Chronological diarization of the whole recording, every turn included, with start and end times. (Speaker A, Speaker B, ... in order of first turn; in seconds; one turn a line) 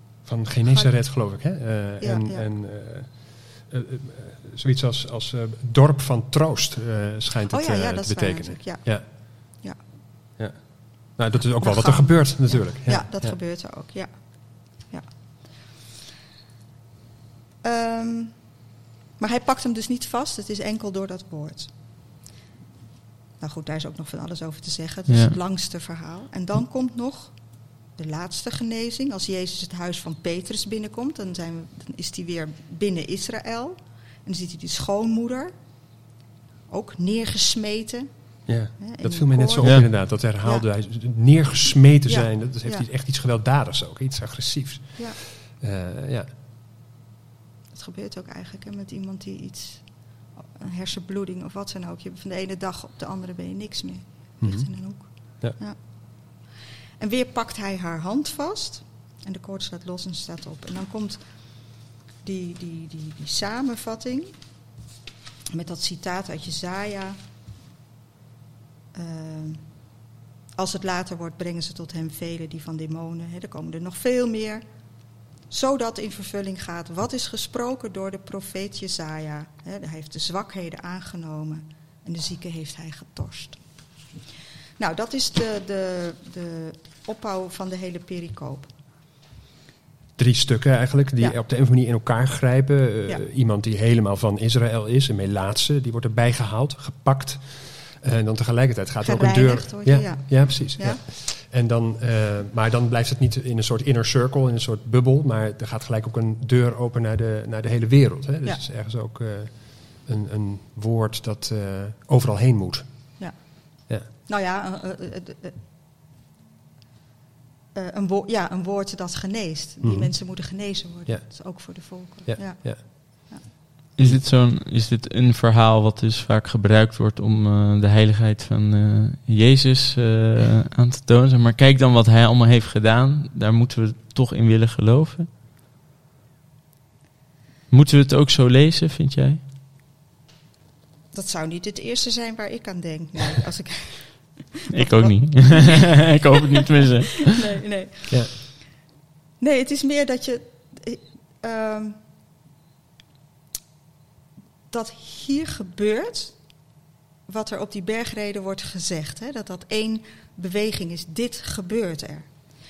Speaker A: 0.2-9.1
Speaker B: 0.7-0.9
Speaker B: 2.0-2.5
Speaker B: 7.5-9.8
Speaker A: 10.4-13.4
Speaker B: 11.6-15.1
Speaker B: 17.6-18.4
Speaker B: 19.2-21.7
Speaker B: 23.4-27.4
Speaker C: 25.1-25.4
Speaker B: 27.9-35.5
Speaker B: 36.7-38.1
Speaker A: 38.5-46.3
Speaker B: 38.7-40.7
Speaker C: 39.6-39.9
Speaker B: 42.1-42.9
Speaker B: 47.7-56.4
Speaker A: 54.4-55.6
Speaker B: 57.0-61.2
Speaker B: 62.2-64.3
Speaker B: 65.5-67.2
Speaker B: 69.0-69.6
Speaker B: 70.6-74.6
Speaker B: 75.5-83.6
Speaker B: 84.8-88.7
Speaker A: 90.2-113.1
Speaker B: 99.0-101.0
Speaker B: 113.2-115.6
Speaker B: 117.8-123.5
Speaker A: 119.8-120.1
Speaker A: 121.1-122.8
Speaker C: 124.0-135.3
Speaker C: 137.7-139.4
Speaker B: 141.1-148.6
Speaker C: 144.7-147.4
Speaker B: 149.4-152.0
Speaker B: 154.7-156.4
Speaker B: 157.3-162.3